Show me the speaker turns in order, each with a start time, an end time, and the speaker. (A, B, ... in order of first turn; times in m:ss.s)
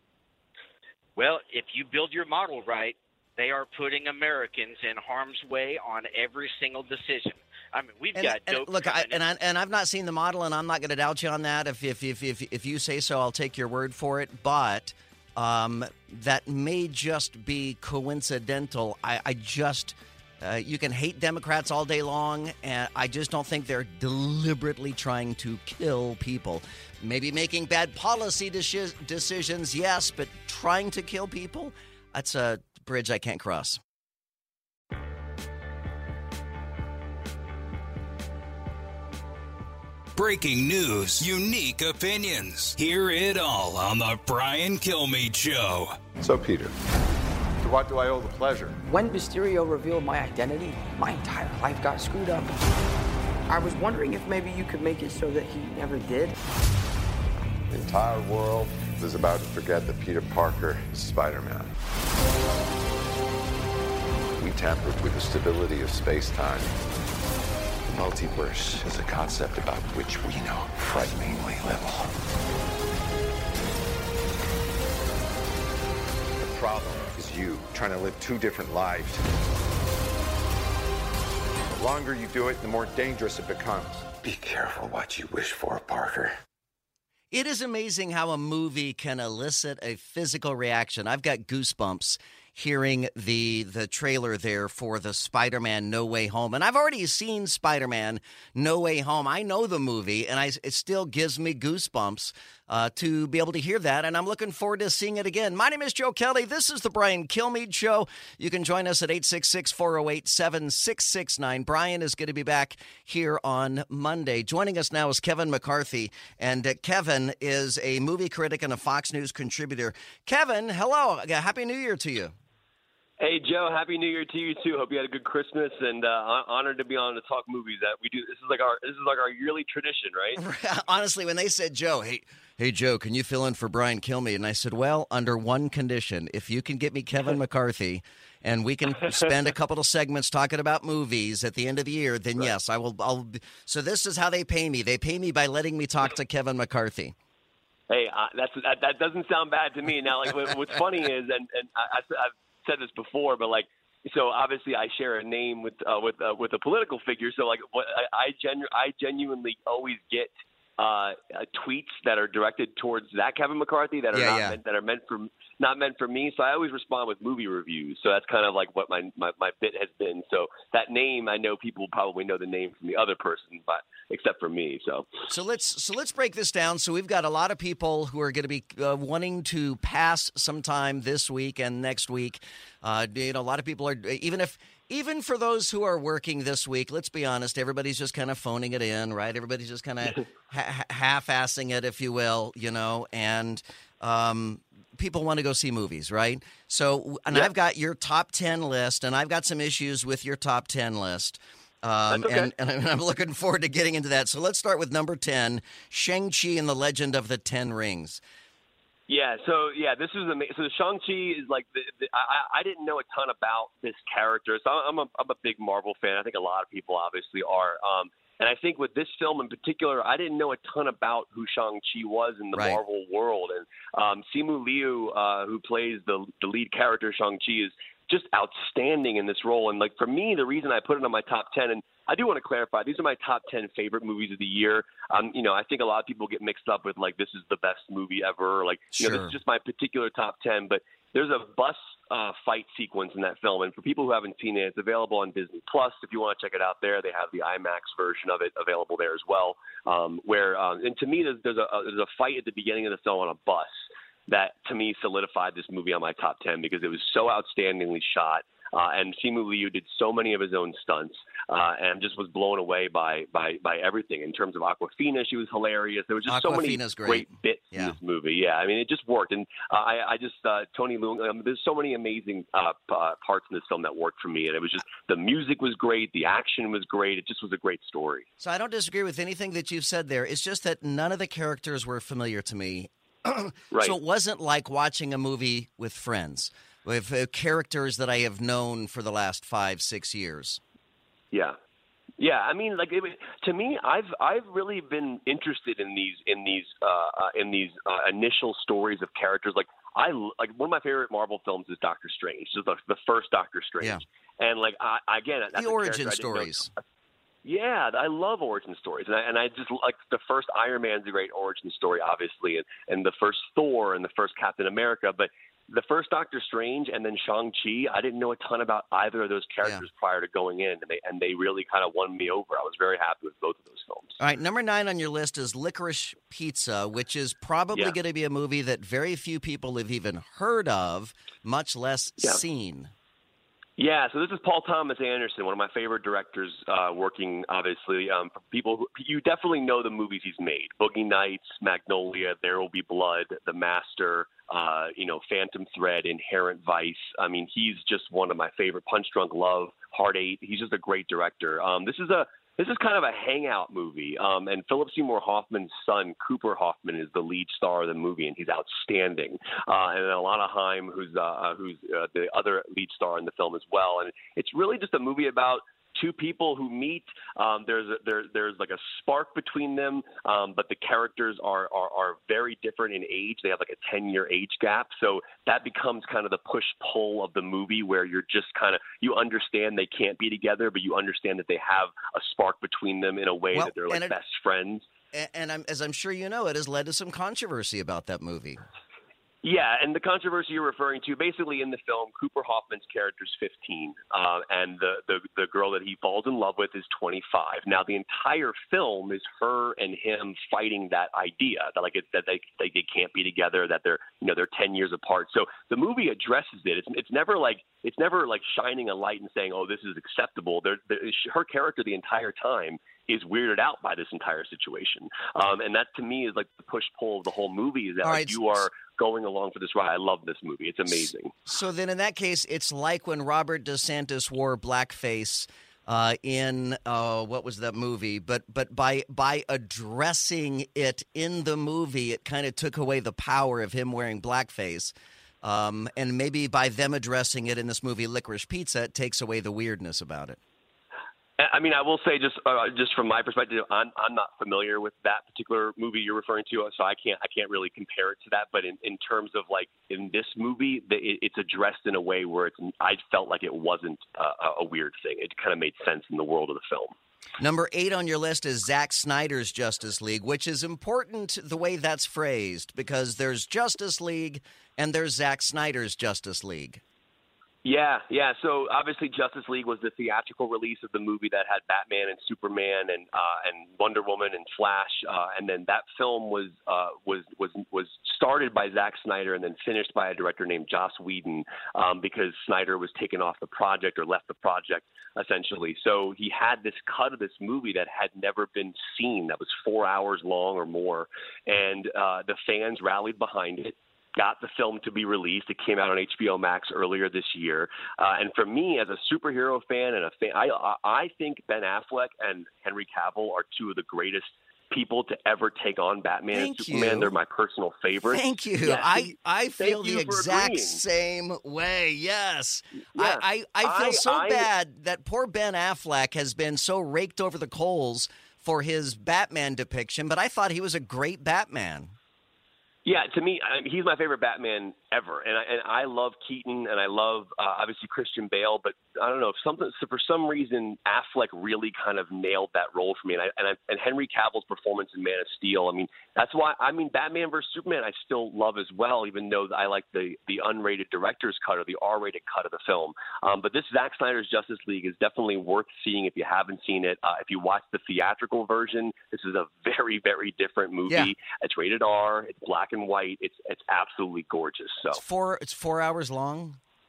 0:01.2-0:09.2 A
0:08.2-0:33.8 B
0:40.2-0:46.0 C
0:46.2-0:46.7 D
0:47.6-0:48.7 D
0:48.8-0:52.5 E
0:53.5-0:56.3 E
0:57.7-1:01.7 D
1:04.4-1:06.8 D
1:07.9-1:12.2 D
1:16.4-1:19.2 D
1:21.8-1:26.4 D
1:27.3-2:02.3 B
2:03.2-2:10.4 F
2:10.4-2:27.1 B
2:27.9-2:55.1 F
2:44.1-2:44.6 B
2:55.3-3:28.2 B
3:22.1-3:22.5 F
3:29.1-4:13.7 F
3:42.5-3:42.8 B
3:59.0-3:59.3 B
4:14.3-4:38.2 F
4:26.3-4:28.0 B
4:38.4-4:50.6 B
4:43.7-4:44.0 F
4:51.3-4:51.6 F
4:52.2-5:06.8 F
5:05.6-5:06.7 B
5:07.4-5:24.2 F
5:24.2-5:32.9 B
5:33.8-6:24.8 F
6:23.5-6:24.1 B
6:25.1-6:28.6 B
6:29.4-7:01.3 F
6:58.0-6:58.4 B
7:01.5-7:20.4 B
7:21.4-7:36.9 F
7:37.4-7:46.8 B
7:47.6-8:30.8 F
8:26.3-8:27.1 B
8:28.1-8:41.9 B
8:33.0-8:34.5 F
8:42.8-9:15.0 F
9:14.9-9:16.6 B